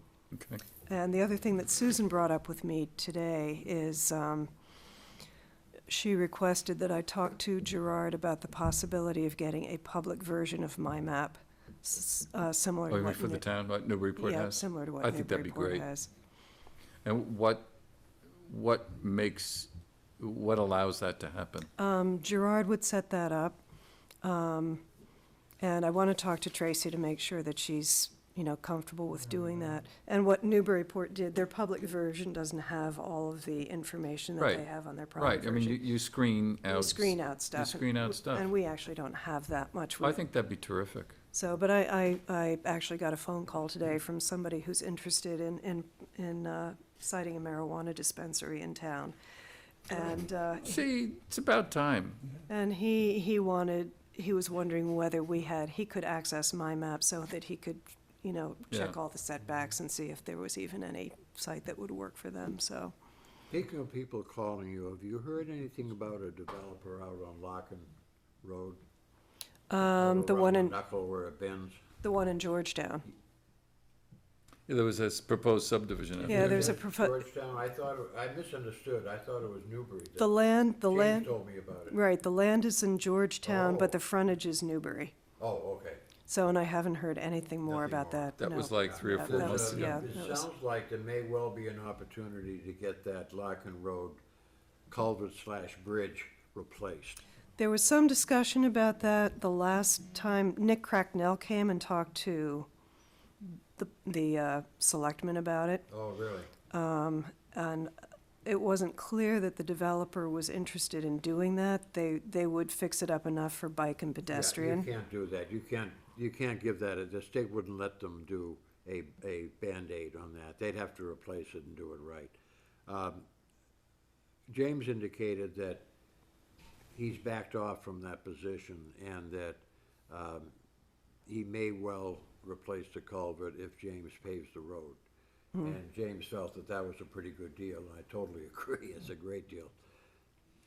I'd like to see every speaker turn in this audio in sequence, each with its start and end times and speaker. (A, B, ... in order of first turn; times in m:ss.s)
0:00.3-0:00.6 A
0:00.8-0:04.5 B
0:05.9-0:13.4 B
0:12.9-0:15.9 A
0:14.2-0:16.1 B
0:17.0-0:17.7 A
0:18.4-0:21.7 A
0:21.8-0:23.6 B
0:24.2-0:24.8 B
0:25.6-0:35.9 B
0:34.4-0:38.5 A
0:36.7-0:40.2 B
0:40.0-0:41.2 A
0:41.3-0:49.2 B
0:49.8-0:50.8 B
0:50.6-0:52.3 A
0:52.5-1:02.9 B
0:58.7-0:59.0 A
1:03.5-1:07.9 C
1:08.4-1:08.8 C
1:09.7-1:10.7 B
1:09.9-1:11.8 C
1:12.0-1:13.1 B
1:14.7-1:16.8 A
1:16.2-1:22.0 C
1:16.3-1:17.2 B
1:20.2-1:21.3 B
1:21.9-1:25.1 B
1:23.4-1:23.9 C
1:25.4-1:26.0 C
1:26.3-1:30.5 B
1:27.7-1:34.2 C
1:28.4-1:30.1 A
1:34.9-1:37.2 C
1:37.6-1:42.7 B
1:43.7-1:45.9 B
1:45.9-1:46.5 C
1:46.7-1:54.9 B
1:54.3-2:02.4 C
2:02.9-2:03.2 C
2:04.5-2:05.8 C
2:06.9-2:10.5 C
2:11.3-2:15.0 C
2:15.6-2:19.7 C